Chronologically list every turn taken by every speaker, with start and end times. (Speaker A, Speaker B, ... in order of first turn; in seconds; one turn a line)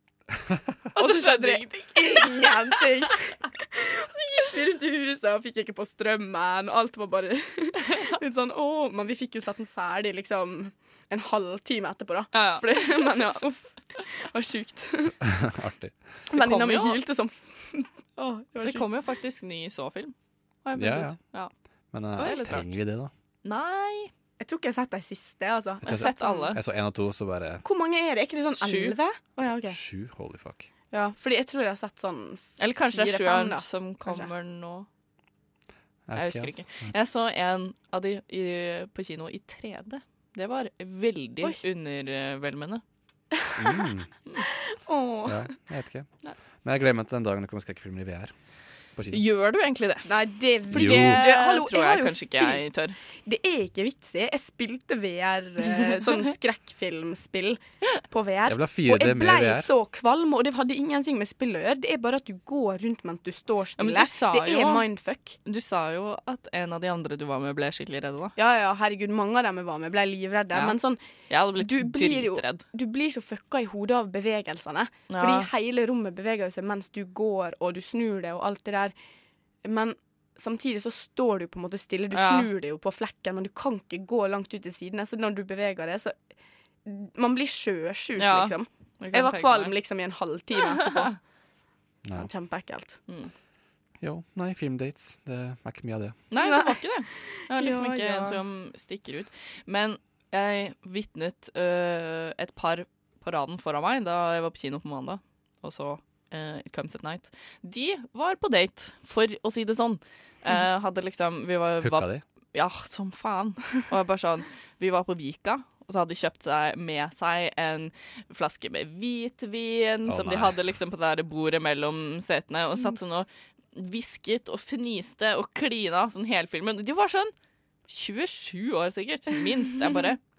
Speaker A: 0.9-15.1
Speaker B: 0.9-2.8
Speaker B: 12.3-13.2
Speaker C: 15.2-15.9
Speaker A: 16.3-18.9
Speaker B: 16.3-17.0
Speaker B: 18.6-21.5
Speaker C: 20.8-21.2
Speaker C: 21.9-23.1
Speaker B: 22.1-22.7
Speaker B: 23.4-24.1
Speaker A: 24.4-26.6
Speaker C: 25.8-27.6
Speaker B: 25.8-26.6
Speaker A: 27.6-29.8
Speaker B: 28.5-29.0
Speaker C: 29.7-30.7
Speaker A: 30.9-34.3
Speaker B: 32.6-34.9
Speaker C: 36.1-36.9
Speaker B: 36.1-42.8
Speaker C: 43.5-44.1
Speaker A: 44.6-45.5
Speaker C: 45.2-46.1
Speaker C: 46.6-48.3
Speaker C: 48.9-49.2
Speaker B: 49.1-50.1
Speaker A: 50.0-52.6
Speaker B: 50.7-53.0
Speaker C: 50.7-51.2
Speaker A: 53.2-65.3
Speaker B: 55.7-56.0
Speaker C: 58.5-59.7
Speaker B: 63.8-64.8
Speaker B: 65.4-68.3
Speaker A: 68.4-71.0
Speaker B: 71.3-72.6
Speaker A: 71.5-78.9
Speaker B: 75.1-75.5
Speaker A: 79.6-86.1
Speaker B: 82.1-82.5
Speaker A: 86.8-91.1
Speaker B: 88.2-89.7
Speaker B: 90.7-91.2
Speaker C: 92.0-92.3
Speaker A: 92.1-93.0
Speaker C: 94.0-96.2
Speaker B: 96.3-127.3
Speaker A: 96.3-98.4
Speaker C: 111.8-112.2
Speaker C: 120.1-120.6
Speaker B: 127.9-130.2